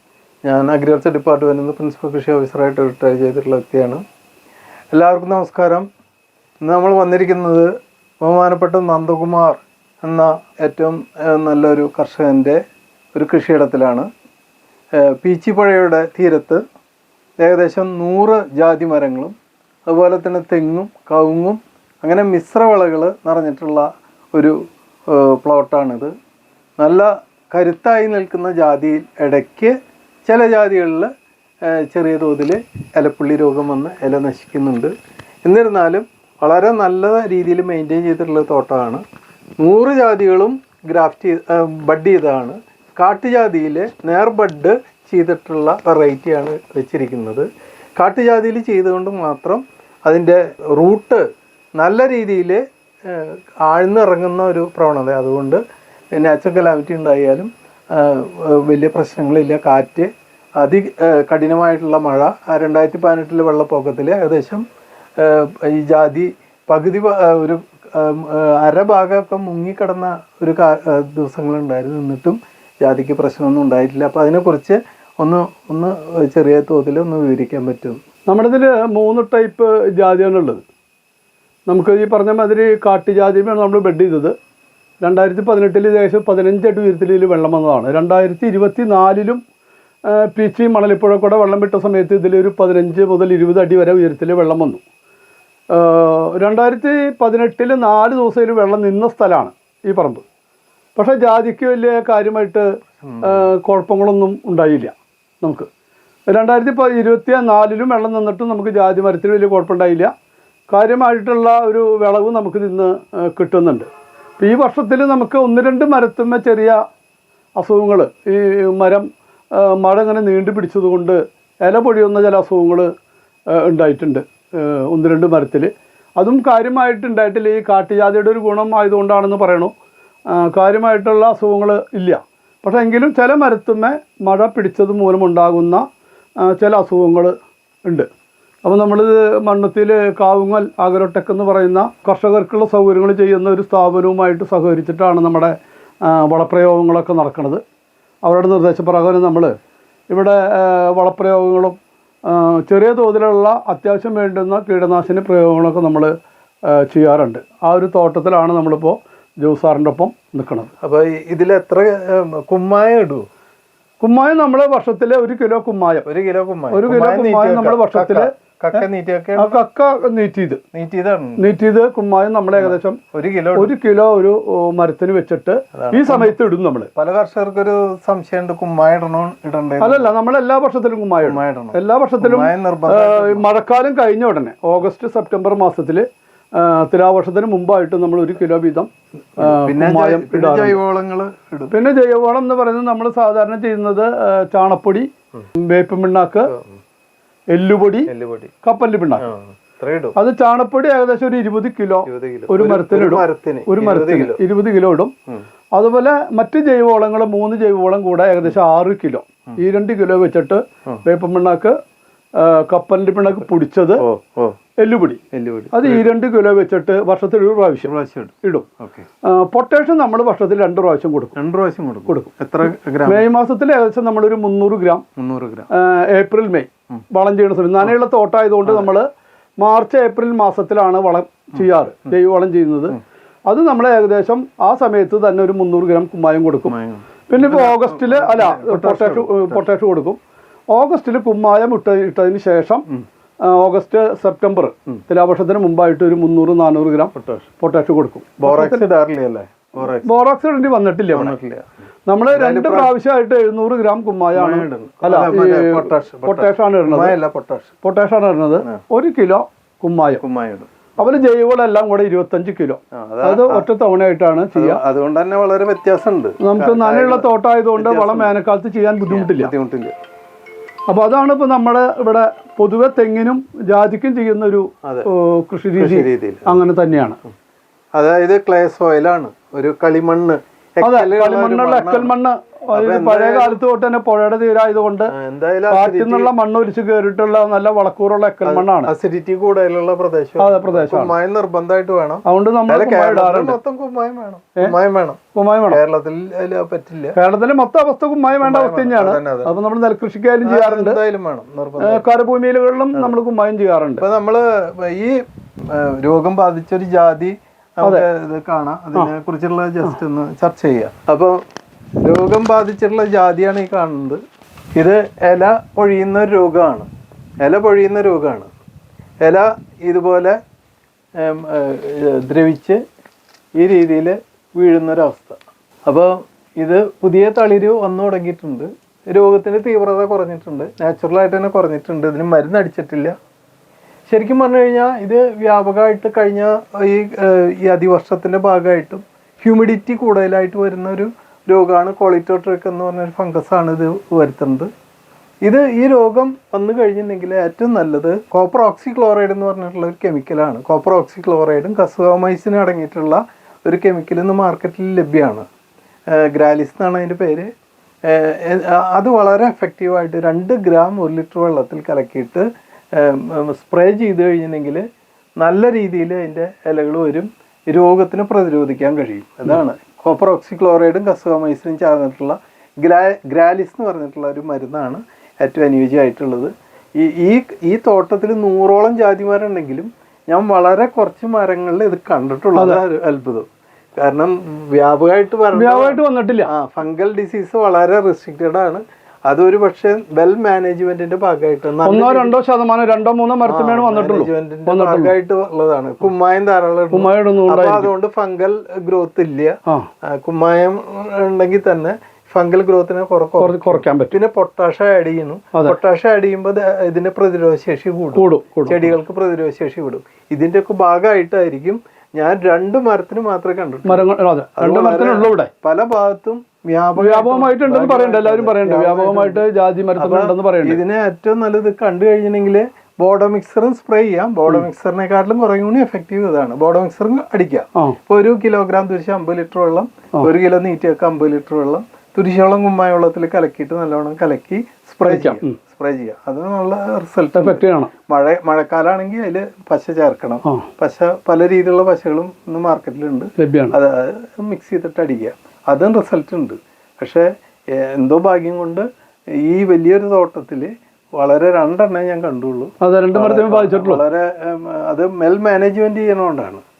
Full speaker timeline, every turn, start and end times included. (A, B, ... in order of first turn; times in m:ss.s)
0:00.4-0:04.0 A
0:04.9-0:05.9 A
0:06.6-0:12.6 A
0:13.1-0:14.1 A
0:15.0-0:16.6 A
0:17.4-0:19.3 A
0:19.9-0:24.6 A
0:25.1-0:26.1 A
0:26.8-0:31.1 A
0:31.7-0:34.9 A
0:35.4-0:39.0 A
0:39.6-0:47.4 A
0:48.0-0:51.2 A
0:51.8-0:55.6 A
0:56.2-1:04.6 A
1:05.2-1:18.0 A
1:18.3-1:20.6 B
1:21.7-1:24.3 B
1:25.0-1:29.4 B
1:30.1-1:34.8 B
1:35.7-1:40.2 B
1:41.0-1:42.7 B
1:43.0-1:43.5 A
1:43.2-1:45.7 B
1:46.3-1:50.1 B
1:50.7-1:53.9 B
1:54.4-1:56.8 B
1:57.6-2:02.9 B
2:03.5-2:09.7 B
2:10.3-2:15.8 B
2:16.4-2:18.1 B
2:18.6-2:27.6 B
2:28.2-2:29.5 B
2:30.1-2:36.1 B
2:36.7-2:40.7 B
2:40.8-2:43.3 A
2:44.0-2:46.0 B
2:46.0-2:49.6 A
2:46.7-2:48.8 B
2:49.4-2:50.6 B
2:50.7-2:51.4 A
2:51.4-2:53.0 B
2:52.6-2:53.7 A
2:53.5-2:56.9 B
2:55.7-2:56.4 A
2:56.9-3:00.1 A
2:59.8-3:06.0 B
3:01.2-3:03.4 A
3:06.6-3:10.8 B
3:09.4-3:11.7 A
3:11.7-3:15.1 B
3:15.6-3:16.5 B
3:16.5-3:16.8 A
3:17.5-3:18.1 B
3:18.1-3:18.5 A
3:18.6-3:19.2 B
3:19.2-3:20.2 A
3:20.2-3:25.1 B
3:22.0-3:24.4 A
3:25.8-3:31.8 B
3:32.4-3:34.0 B
3:34.0-3:34.6 A
3:34.8-3:35.2 B
3:35.3-3:36.1 A
3:35.7-3:37.9 B
3:37.8-3:39.0 A
3:39.2-3:41.3 B
3:41.3-3:43.2 A
3:43.0-3:45.0 B
3:45.2-3:45.7 A
3:45.7-3:49.1 B
3:48.6-3:48.9 A
3:49.6-3:53.0 B
3:53.5-3:56.7 B
3:56.6-3:59.6 A
3:57.3-4:00.2 B
4:00.7-4:02.8 B
4:03.4-4:08.8 B
4:07.1-4:07.5 A
4:08.4-4:10.1 A
4:10.0-4:11.3 B
4:11.1-4:11.7 A
4:12.1-4:17.2 B
4:12.3-4:12.9 A
4:14.3-4:17.7 A
4:17.8-4:20.2 B
4:20.2-4:21.1 A
4:21.0-4:24.8 B
4:22.9-4:23.6 A
4:24.5-4:28.4 A
4:26.4-4:29.5 B
4:29.1-4:29.9 A
4:30.9-4:37.2 B
4:35.8-4:36.6 A
4:37.9-4:42.1 A
4:40.8-4:45.1 B
4:42.7-4:43.6 A
4:45.1-4:46.3 A
4:45.7-4:48.9 B
4:48.4-4:57.2 A
4:50.4-4:51.1 B
4:52.2-4:53.6 B
4:55.3-4:55.8 B
4:57.1-5:01.0 B
4:58.4-4:59.5 A
5:00.4-5:02.0 A
5:01.8-5:04.0 B
5:04.0-5:11.4 A
5:12.0-5:14.2 A
5:14.8-5:16.9 A
5:17.4-5:18.5 A
5:19.2-5:20.4 A
5:21.2-5:22.8 A
5:23.6-5:33.1 A
5:34.1-5:44.7 A
5:45.4-5:55.4 A
5:56.2-5:57.5 A
5:58.1-6:04.8 A
6:05.4-6:23.5 A
6:22.6-6:22.8 B
6:24.0-6:32.3 A
6:25.5-6:26.5 B
6:31.8-6:35.1 B
6:33.4-6:54.1 A
6:36.9-6:37.9 B
6:43.4-6:44.2 B
6:48.1-6:48.9 B
6:53.8-6:55.5 B
6:54.6-6:59.4 A
6:57.0-7:00.8 B
7:00.0-7:28.8 A
7:15.0-7:15.6 B
7:17.4-7:17.9 B
7:23.4-7:23.8 B
7:29.4-7:36.6 A
7:32.8-7:34.0 B